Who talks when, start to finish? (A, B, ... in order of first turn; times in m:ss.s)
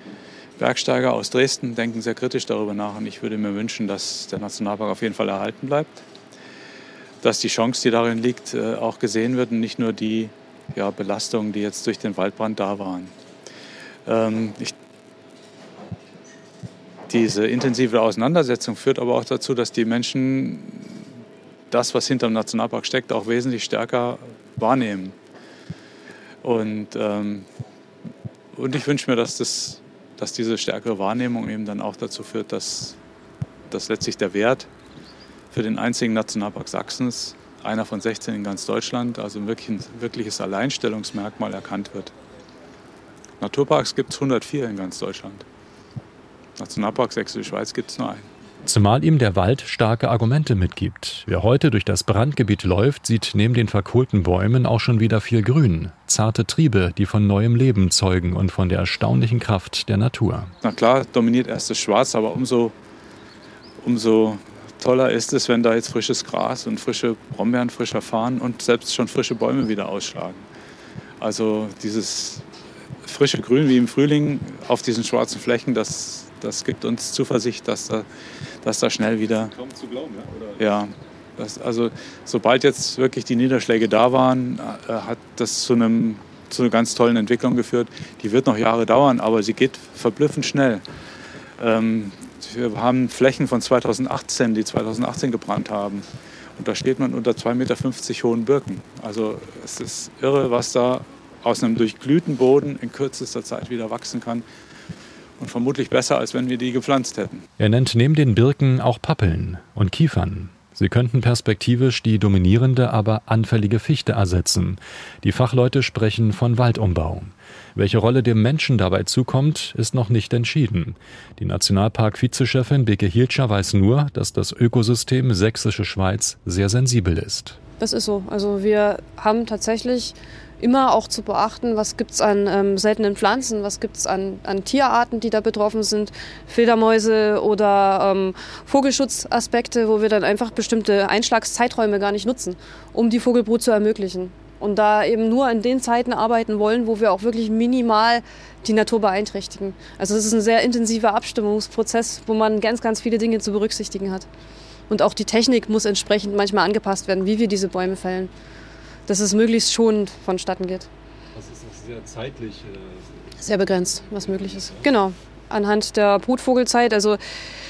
0:00.6-0:06.0 A
0:07.2-0:13.1 A
0:14.0-0:14.7 A
0:17.1-0:21.0 A
0:21.7-0:25.1 A
0:26.4-0:27.5 A
0:28.5-0:33.0 A
0:33.7-0:34.7 A
0:35.5-0:42.1 A
0:43.4-0:45.4 A
0:46.6-0:48.3 A
0:48.6-1:00.5 B
1:00.6-1:02.7 A
1:03.8-1:10.4 A
1:11.2-1:12.4 A
1:13.0-1:18.1 A
1:18.6-1:19.5 A
1:19.2-1:20.6 C
1:20.6-1:30.8 A
1:31.6-1:36.1 A
1:36.6-1:44.4 A
1:45.4-1:47.4 A
1:47.6-2:07.6 B
2:07.8-2:34.3 D
2:34.9-2:38.3 D
2:39.1-2:40.9 D
2:41.3-2:45.0 C
2:43.4-2:47.2 D